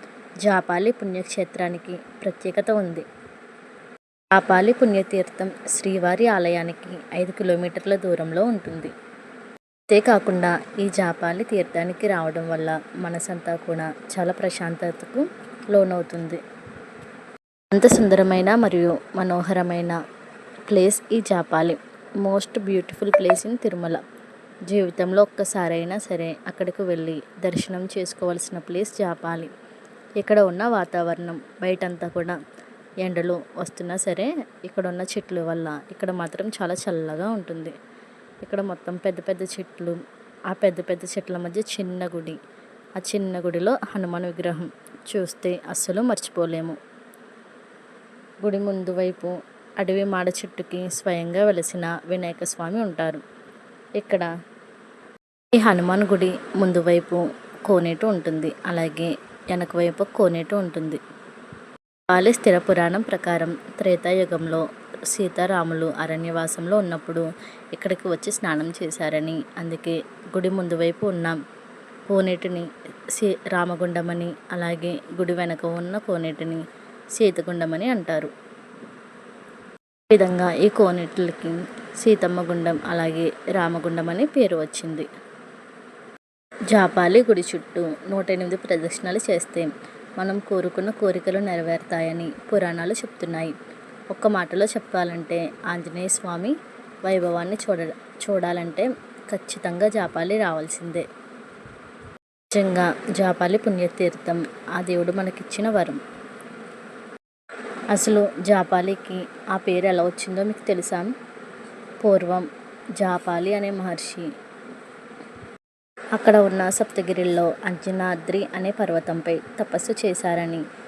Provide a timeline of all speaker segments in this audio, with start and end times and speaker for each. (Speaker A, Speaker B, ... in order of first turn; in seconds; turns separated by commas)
Speaker A: 0.4-3.0, Speaker A: 4.3-8.9, Speaker A: 9.9-16.4, Speaker A: 17.7-20.0, Speaker A: 20.7-24.0, Speaker A: 24.7-29.5, Speaker A: 30.2-32.4, Speaker A: 33.0-37.7, Speaker A: 38.4-42.4, Speaker A: 43.0-46.8, Speaker A: 48.4-53.2, Speaker A: 54.0-54.3, Speaker A: 55.5-61.0, Speaker A: 62.1-71.4, Speaker A: 72.1-76.6, Speaker A: 77.2-78.3, Speaker A: 80.1-85.1, Speaker A: 86.7-93.5, Speaker A: 94.1-101.0, Speaker A: 102.5-106.0, Speaker A: 107.9-111.1, Speaker A: 112.0-114.3, Speaker A: 116.1-120.6